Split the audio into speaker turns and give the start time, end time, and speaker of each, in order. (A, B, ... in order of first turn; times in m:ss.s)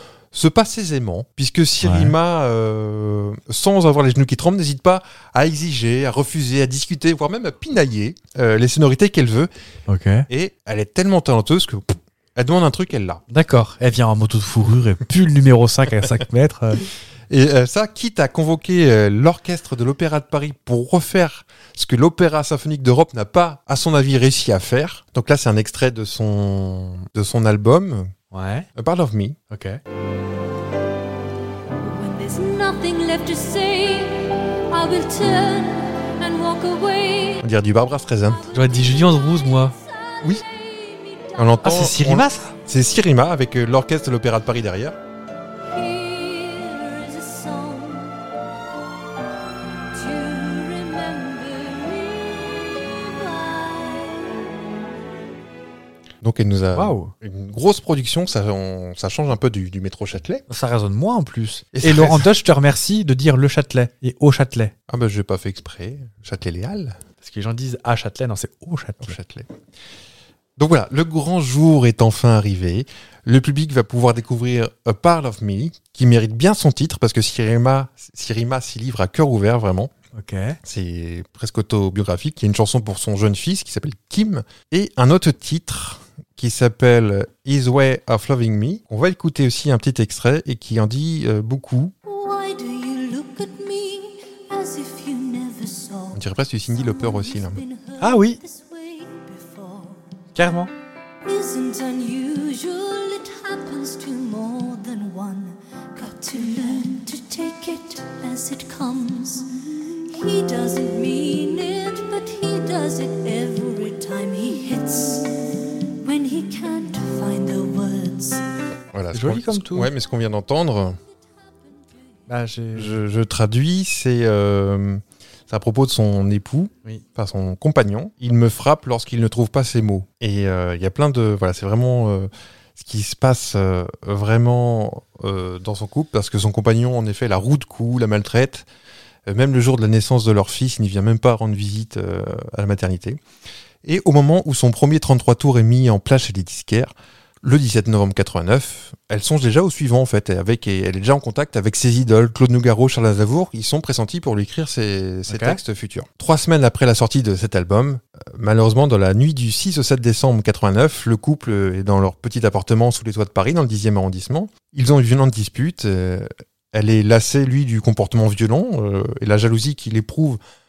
0:00.3-0:09.5 A
0:01.8-0:02.1 B
0:09.9-0:10.3 B
0:10.3-0:13.2 A
0:13.3-0:16.8 B
0:17.3-0:28.1 A
0:28.3-0:28.7 B
0:28.7-0:29.4 A
0:29.5-0:29.8 B
0:31.8-0:37.4 C
0:37.4-0:38.4 A
0:38.5-0:39.7 B
0:39.6-0:41.6 C
0:41.4-0:45.0 A
0:41.6-0:42.5 B
0:45.7-0:48.2 C
0:49.9-0:54.3 C
0:56.2-1:00.4 A
0:56.8-0:57.1 B
1:00.5-1:04.7 B
1:01.7-1:02.3 A
1:04.9-1:07.0 A
1:07.2-1:09.2 B
1:09.0-1:09.5 A
1:10.6-1:19.9 A
1:20.1-1:20.6 B
1:20.6-1:31.9 A
1:32.0-1:40.1 C
1:36.1-1:37.6 A
1:38.0-1:38.4 B
1:40.3-1:40.7 B
1:41.2-1:58.4 C
1:58.9-2:01.0 A
1:59.1-1:59.9 B
2:02.3-2:03.0 B
2:02.7-2:18.7 A
2:19.2-2:23.2 A
2:23.8-2:50.4 A
2:35.3-2:35.6 B